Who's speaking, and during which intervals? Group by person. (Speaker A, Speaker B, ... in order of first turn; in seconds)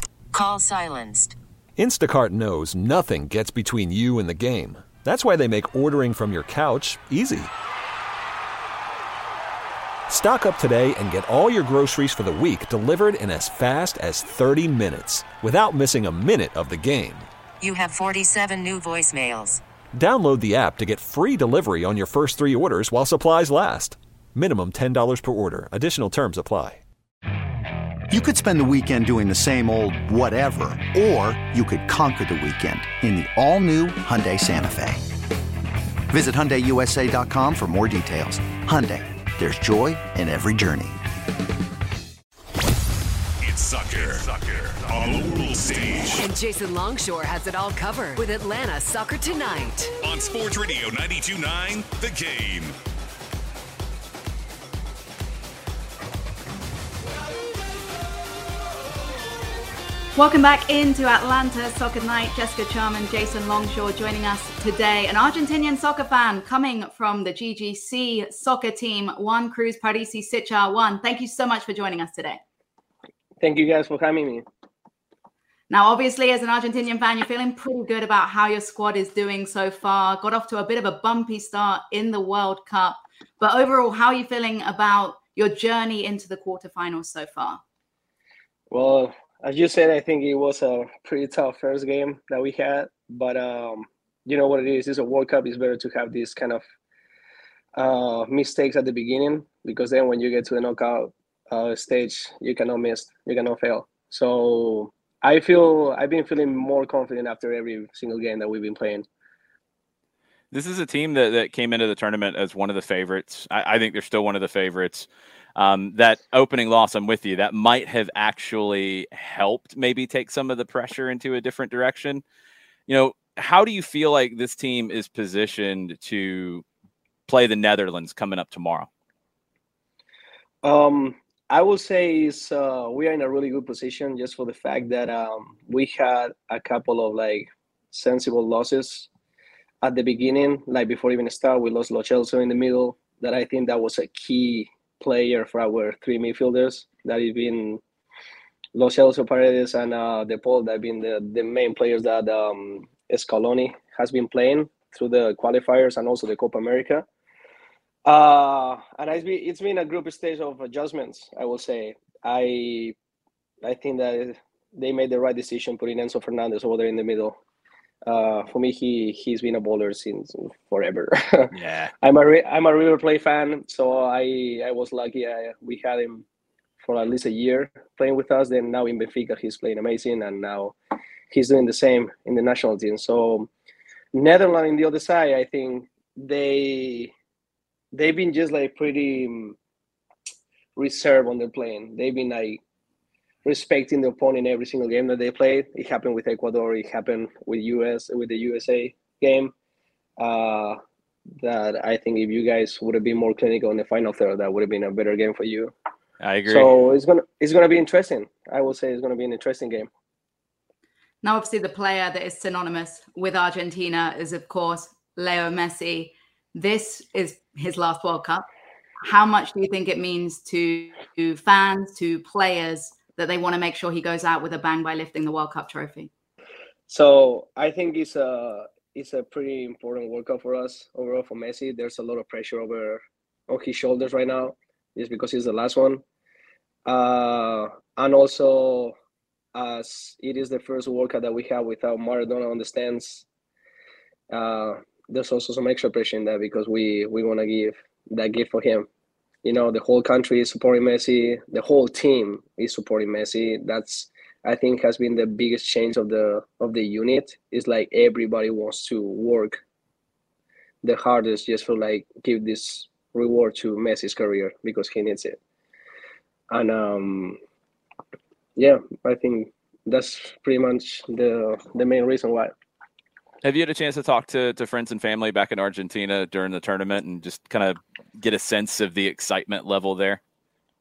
Speaker A: 0.3-1.4, 17.6-19.6
Speaker B: 1.8-7.5, 10.1-17.2, 20.0-26.8
Speaker C: 28.1-35.0, 36.1-41.0
Speaker D: 43.4-46.2, 50.0-52.7
Speaker E: 45.8-49.9
Speaker F: 60.1-72.4, 75.7-87.6, 211.2-218.4, 219.0-226.1
Speaker G: 73.4-74.4, 88.7-96.6, 97.8-109.0, 130.6-139.1, 139.8-147.8, 148.7-157.0, 158.0-162.9, 163.6-167.4, 168.0-176.2, 176.8-180.7, 181.3-183.5, 184.1-187.1, 187.9-189.6, 190.8-192.6, 193.4-199.5, 200.2-200.8, 201.4-205.7, 206.4-209.9, 226.9-236.0, 236.8-238.9, 239.5-243.2, 244.3-248.9, 249.4-259.6, 260.8-265.4, 266.5-267.4, 268.6-272.5
Speaker H: 110.5-122.2, 122.9-126.6, 127.3-128.9, 171.5-171.9, 206.2-206.7, 273.4-280.2